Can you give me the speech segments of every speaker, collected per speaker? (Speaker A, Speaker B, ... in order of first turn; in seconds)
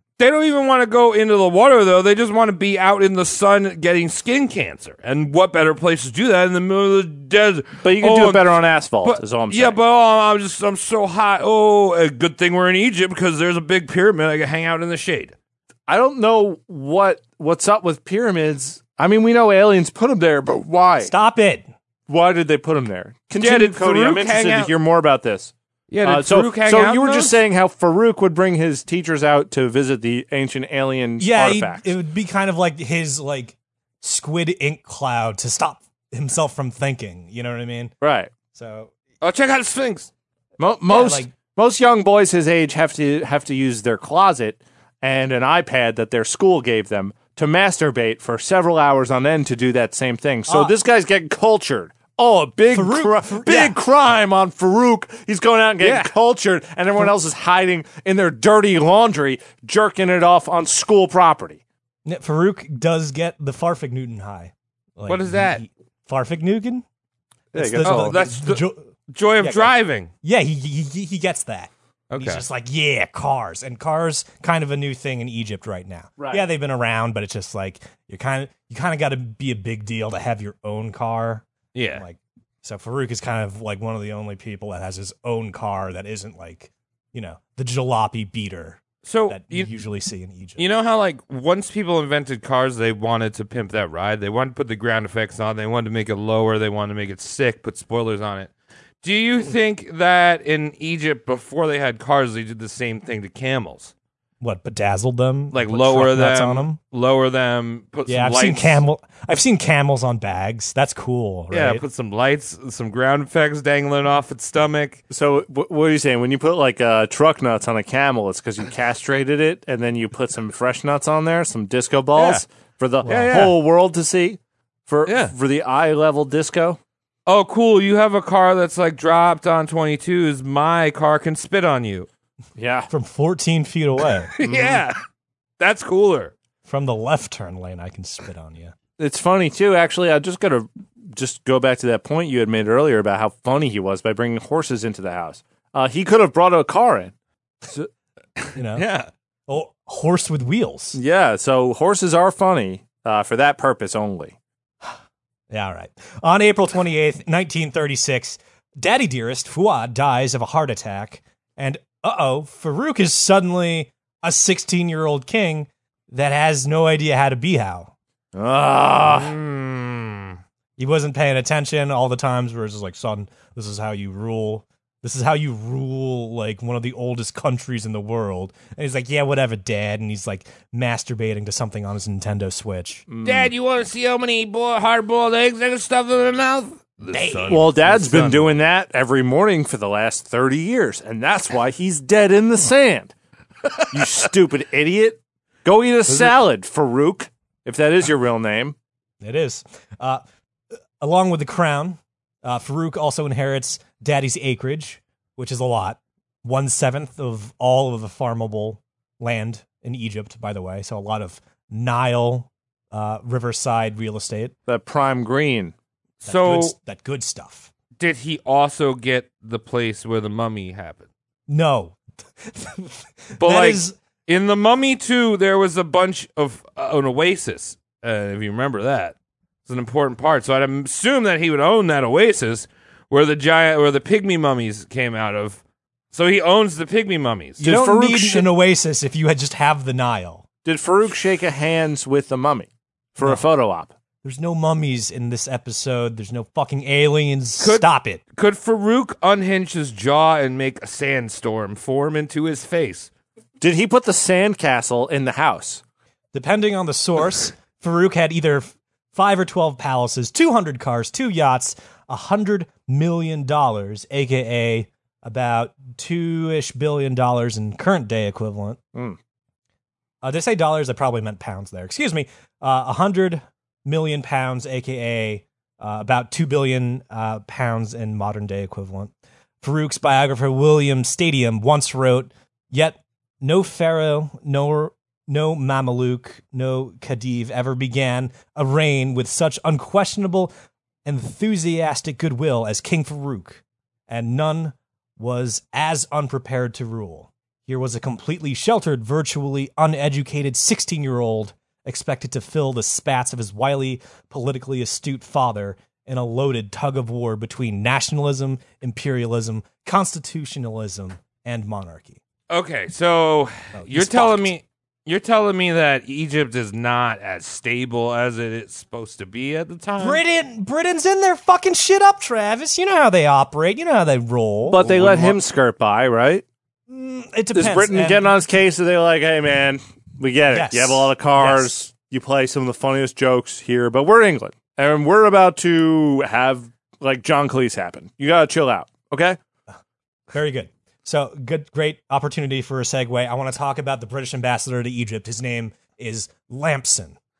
Speaker A: 0.2-15.3, 23.4-24.7, 25.9-27.4, 39.2-40.1, 55.8-56.1, 65.1-65.6, 67.8-70.1, 72.1-72.4, 81.7-82.0, 89.0-89.7, 90.6-103.9, 105.5-108.8, 111.5-115.0, 122.2-122.4, 123.1-123.5, 125.0-125.3, 127.2-132.1, 134.4-135.0, 135.6-136.3, 148.4-149.1, 169.0-170.4, 183.2-188.6, 216.2-216.7, 218.0-221.1, 223.4-229.1, 229.7-235.6, 236.1-237.6, 247.6-253.1, 312.5-320.2, 324.8-325.4
Speaker B: 7.8-9.8, 15.9-21.1, 22.1-25.5, 26.0-31.9, 38.0-38.3, 40.6-61.6, 67.5-68.2, 76.2-76.5, 115.1-126.8, 132.6-132.9, 139.0-147.1, 150.9-154.3, 168.3-169.3, 183.1-183.5, 187.5-193.1, 193.9-198.8, 214.7-215.7, 237.6-238.5, 240.6-243.9, 253.6-255.8, 324.7-326.4, 327.5-339.4
Speaker C: 21.0-21.7, 31.2-37.9, 38.5-38.9, 40.9-41.3, 50.5-50.7, 52.7-53.8, 62.0-66.8, 67.5-68.8, 69.4-90.6, 104.4-106.8, 108.1-111.8, 123.0-123.5, 132.9-134.3, 136.7-138.7, 148.6-148.8, 149.5-151.0, 155.5-167.9, 170.8-183.0, 187.1-187.6, 199.2-200.2, 201.0-214.5, 216.2-217.7, 221.5-223.9, 237.6-240.4, 244.2-248.2, 256.3-268.8, 270.2-290.5, 291.0-312.2, 313.7-314.5, 320.0-324.9, 326.9-328.3, 330.5-331.7, 340.3-347.1